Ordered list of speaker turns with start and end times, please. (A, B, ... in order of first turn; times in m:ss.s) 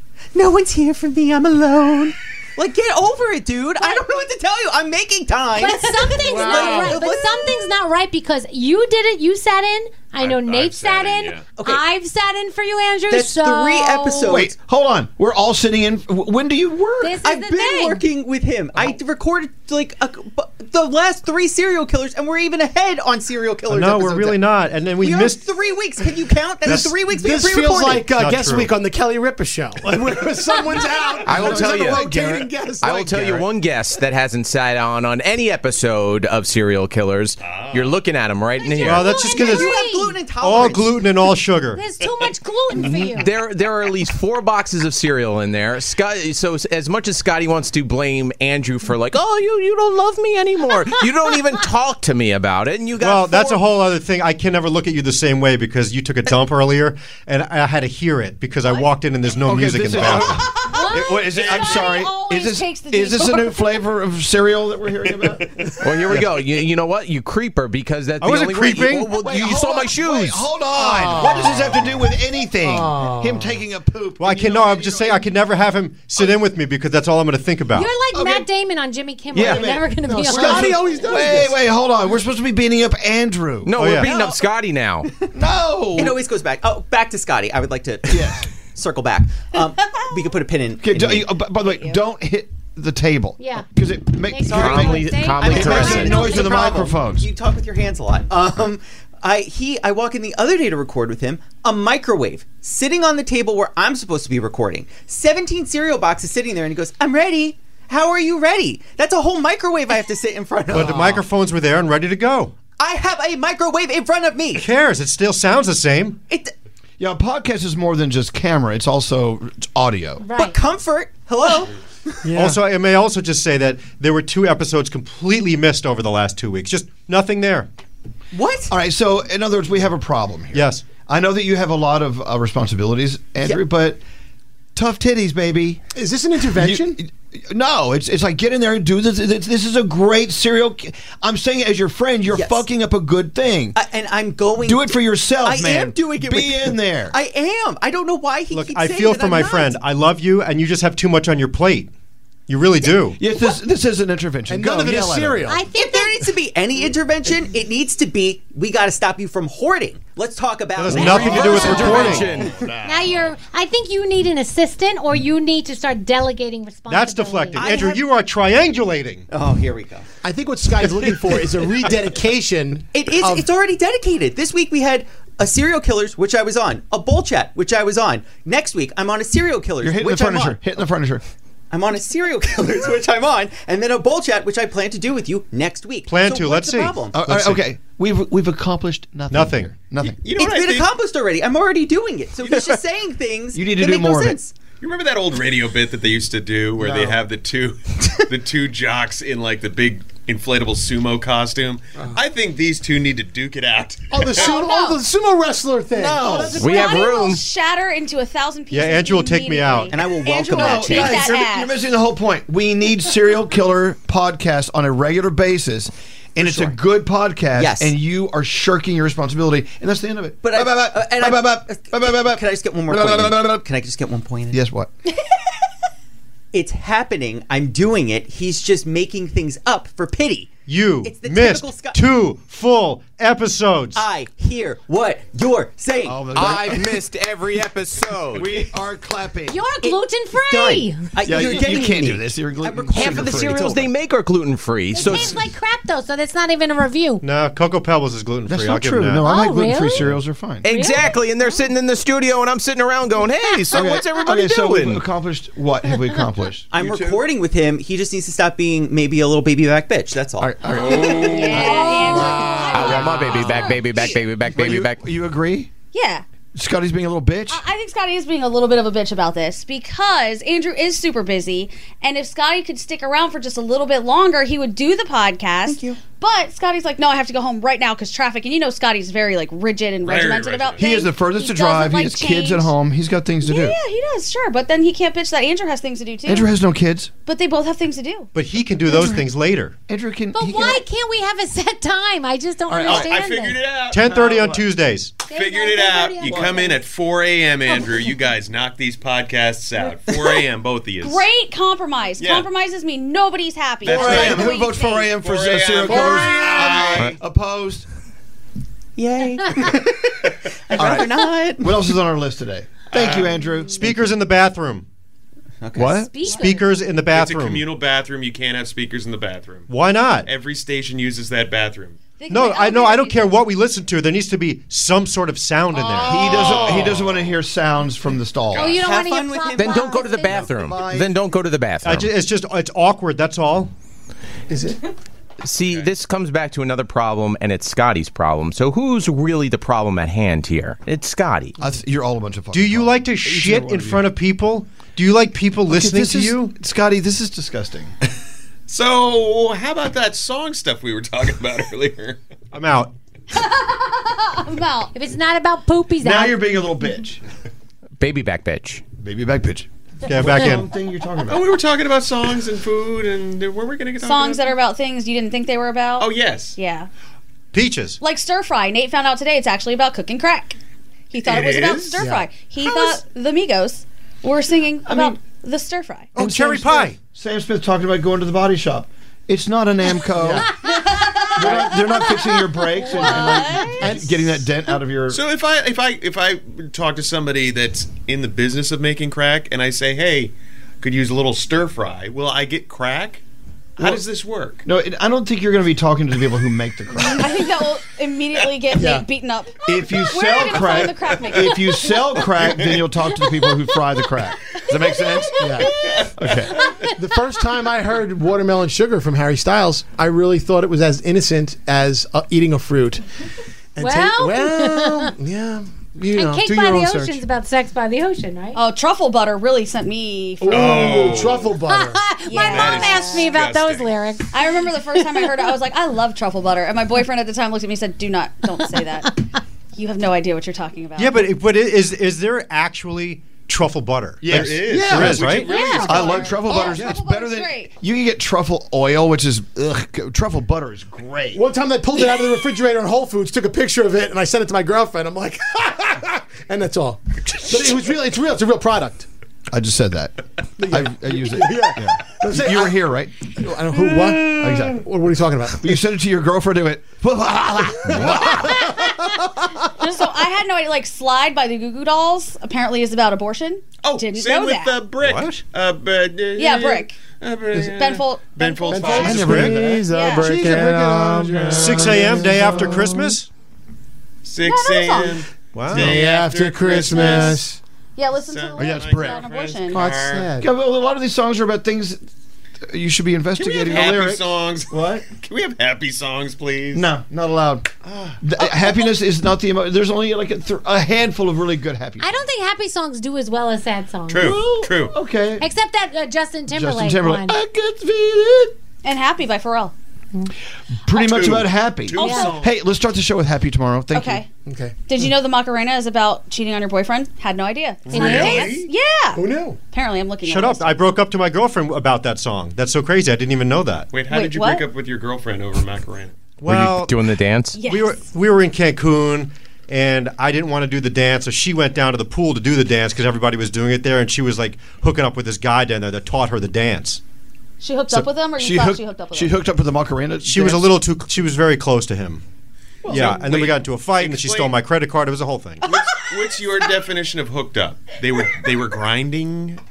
0:00.3-0:07.7 A
0:03.8-0:04.1 B
0:05.5-0:14.3 B
0:06.5-0:06.9 C
0:10.2-0:11.5 D
0:11.6-0:11.8 A
0:13.1-0:14.5 A
0:14.2-0:17.2 E
0:17.0-0:18.0 B
0:17.2-0:24.4 A
0:23.7-0:25.4 F
0:25.0-0:28.1 A
0:26.7-0:32.6 C
0:28.1-0:28.7 F
0:31.2-0:39.1 G
0:31.3-0:33.1 E
0:37.4-0:37.9 D
0:38.6-0:40.2 B
0:38.8-0:39.7 F
0:39.2-0:41.1 A
0:40.4-0:41.8 F
0:41.7-0:43.4 B
0:42.0-0:42.2 D
0:42.8-0:53.6 G
0:53.0-1:00.4 F
0:59.4-1:05.6 E
1:00.5-1:03.8 H
1:01.4-1:01.7 D
1:05.1-1:05.7 D
1:05.8-1:10.7 G
1:08.2-1:09.1 F
1:09.2-1:15.3 E
1:10.8-1:11.9 C
1:12.7-1:13.5 C
1:14.2-1:17.9 F
1:17.7-1:20.8 B
1:18.1-1:18.5 E
1:19.3-1:23.7 E
1:19.6-1:21.5 C
1:23.6-1:25.1 G
1:23.8-1:24.1 F
1:24.0-1:24.4 A
1:25.3-1:26.2 E
1:25.9-1:31.5 A
1:28.1-1:28.5 E
1:30.8-1:37.3 E
1:31.7-1:32.0 H
1:33.4-1:36.9 B
1:34.5-1:36.3 G
1:35.4-1:51.2 A
1:50.7-1:52.5 F
1:52.8-1:54.6 A
1:54.5-1:56.2 F
1:57.0-2:00.2 E
2:00.2-2:00.6 B
2:00.3-2:01.7 A
2:02.3-2:07.7 F
2:08.3-2:08.7 A
2:08.7-2:14.0 E
2:10.5-2:10.8 F
2:14.8-2:15.8 E
2:15.9-2:17.0 C
2:16.5-2:23.8 E
2:22.3-2:22.6 A
2:23.7-2:29.8 A
2:24.6-2:27.2 E
2:28.5-2:31.9 F
2:32.5-2:33.2 F
2:33.2-2:35.5 E
2:34.5-2:35.6 C
2:35.5-2:36.3 B
2:35.7-2:42.3 A
2:40.8-2:42.2 F
2:41.0-2:42.5 G
2:41.2-2:43.2 E
2:42.8-2:47.6 B
2:46.9-2:49.2 F
2:47.5-2:48.0 A
2:49.3-2:50.0 A
2:50.2-2:53.5 C
2:50.8-2:51.2 F
2:52.9-3:00.8 A
2:59.8-3:01.2 E
3:01.7-3:07.2 A
3:06.1-3:07.6 F
3:07.1-3:10.2 E
3:09.3-3:09.7 F
3:10.2-3:10.9 D
3:10.3-3:14.5 A
3:12.4-3:12.8 D
3:13.5-3:14.4 E
3:14.8-3:24.6 D
3:16.8-3:17.2 E
3:24.1-3:26.6 C
3:24.4-3:25.0 H
3:25.9-3:26.6 A
3:26.5-3:27.4 G
3:26.6-3:31.8 H
3:28.7-3:29.9 F
3:29.9-3:31.3 A
3:30.6-3:43.6 E
3:36.4-3:36.8 A
3:37.6-3:38.0 A
3:40.4-3:44.6 A
3:44.5-3:44.9 E
3:46.5-3:50.5 A
3:50.7-3:54.0 F
3:51.0-3:52.0 A
3:53.9-3:56.3 A
3:56.0-3:57.0 E
3:56.3-3:58.6 G
3:58.3-3:59.6 E
3:59.5-4:01.1 B
3:59.8-4:03.8 A
4:01.2-4:03.7 E
4:02.9-4:05.5 G
4:04.9-4:07.2 B
4:07.2-4:09.2 F
4:08.5-4:10.6 E
4:09.2-4:10.0 B
4:09.9-4:10.2 F
4:10.6-4:15.0 G
4:10.6-4:11.0 B
4:13.7-4:16.6 E
4:16.7-4:21.2 A
4:16.8-4:17.2 D
4:20.4-4:22.2 E
4:20.8-4:21.3 D
4:21.2-4:24.2 H
4:21.6-4:22.8 B
4:22.7-4:25.0 G
4:24.5-4:25.7 E
4:25.9-4:26.2 H
4:26.5-4:27.6 E
4:27.5-4:42.7 H
4:35.7-4:36.0 A
4:40.0-4:41.0 D
4:40.8-4:43.8 E
4:43.4-4:46.5 H
4:46.2-4:47.1 E
4:47.2-4:48.3 H
4:48.3-4:49.7 F
4:48.9-4:49.2 E
4:49.9-4:50.8 E
4:50.3-4:53.6 B
4:52.7-4:53.2 E
4:52.8-4:54.6 D
4:53.9-4:55.2 F
4:54.2-4:54.5 E
4:55.2-4:56.8 B
4:55.3-5:01.3 D
5:00.2-5:00.4 A
5:01.0-5:05.2 H
5:02.2-5:02.5 D
5:03.8-5:04.5 D
5:03.8-5:07.8 E
5:05.2-5:07.2 D
5:09.0-5:11.8 A
5:10.8-5:14.1 E
5:12.9-5:13.3 D
5:13.8-5:14.8 F
5:15.6-5:16.4 A
5:15.7-5:16.1 E
5:15.8-5:16.7 B
5:16.3-5:17.7 F
5:17.1-5:19.7 D
5:19.7-5:20.3 F
5:20.2-5:22.0 D
5:22.2-5:23.4 H
5:22.3-5:26.5 F
5:26.0-5:27.3 D
5:26.0-5:28.8 E
5:28.5-5:28.8 D
5:28.6-5:30.6 B
5:28.7-5:30.1 A
5:29.5-5:32.1 G
5:30.6-5:31.1 E
5:31.8-5:33.7 F
5:34.5-5:34.8 C
5:35.4-5:41.6 G
5:41.6-5:44.1 E
5:42.5-5:46.5 F
5:45.7-5:47.9 E
5:48.7-5:52.2 D
5:52.5-5:52.9 F
5:53.3-5:54.9 H
5:54.9-5:56.6 B
5:56.0-5:57.2 E
5:58.0-5:58.8 G
5:59.0-6:01.4 E
6:00.0-6:00.6 F
6:01.3-6:04.6 D
6:04.0-6:06.9 H
6:06.0-6:06.6 D
6:07.5-6:08.0 F
6:08.0-6:10.6 H
6:11.1-6:16.1 H
6:11.2-6:12.0 D
6:12.6-6:12.9 E
6:14.8-6:15.2 E
6:16.2-6:17.0 F
6:16.2-6:20.5 E
6:20.2-6:20.5 C
6:20.5-6:23.8 H
6:21.3-6:25.2 E
6:23.8-6:24.1 C
6:25.1-6:33.2 D
6:33.8-6:34.6 D
6:34.6-6:37.5 E
6:37.0-6:41.8 H
6:38.3-6:38.8 D
6:38.7-6:39.0 C
6:39.6-6:45.6 E
6:40.5-6:41.5 D
6:42.4-6:43.3 D
6:45.4-6:45.7 C
6:46.2-6:46.6 E
6:47.0-6:53.0 C
6:53.8-6:57.2 C
6:53.8-6:55.1 B
6:56.1-6:58.6 B
6:58.5-7:00.6 H
7:00.4-7:02.0 C
7:00.5-7:01.6 D
7:01.6-7:05.5 B
7:02.2-7:03.3 H
7:02.5-7:04.0 D
7:04.3-7:11.3 H
7:11.0-7:15.5 F
7:14.2-7:21.4 E
7:14.3-7:16.4 D
7:15.4-7:17.7 H
7:16.7-7:17.0 F
7:21.3-7:29.1 C
7:29.5-7:33.2 E
7:30.6-7:32.7 C
7:33.3-7:35.7 C
7:34.3-7:34.8 E
7:35.6-7:39.2 E
7:39.8-7:44.8 H
7:43.8-7:49.4 D
7:45.0-7:45.4 F
7:46.4-7:47.0 H
7:47.6-7:49.2 H
7:48.9-7:49.4 C
7:48.9-7:51.8 E
7:49.1-7:49.6 F
7:49.9-7:50.4 H
7:50.8-7:51.2 C
7:51.3-7:51.8 D
7:51.5-7:53.3 F
7:52.0-7:52.7 C
7:54.2-7:57.4 D
7:54.4-7:55.2 H
7:55.5-7:56.0 F
7:56.1-7:56.8 C
7:56.7-7:57.2 H
7:57.0-7:57.3 E
7:58.0-7:59.8 H
7:58.1-8:00.3 D
7:58.5-7:59.3 E
7:59.8-8:00.4 C
8:00.4-8:02.0 E
8:02.6-8:05.0 E
8:03.4-8:06.9 D
8:06.7-8:07.7 E
8:07.8-8:08.2 D
8:08.2-8:12.1 E
8:12.0-8:14.4 B
8:14.1-8:15.0 D
8:14.2-8:15.5 E
8:15.4-8:17.4 B
8:16.5-8:18.5 E
8:18.8-8:19.7 H
8:20.8-8:24.2 E
8:20.9-8:22.6 D
8:22.0-8:22.4 B
8:23.9-8:24.3 H
8:24.4-8:24.8 C
8:24.9-8:30.8 H
8:27.9-8:28.7 D
8:27.9-8:28.6 B
8:29.2-8:29.6 C
8:30.2-8:33.9 F
8:33.9-8:36.2 D
8:34.1-8:34.6 H
8:36.4-8:36.9 F
8:36.5-8:37.6 G
8:37.6-8:38.0 H
8:37.6-8:47.0 F
8:47.6-8:49.3 H
8:48.4-8:50.7 E
8:50.2-8:52.2 F
8:52.8-8:54.5 D
8:52.8-8:55.6 F
8:55.6-8:59.6 D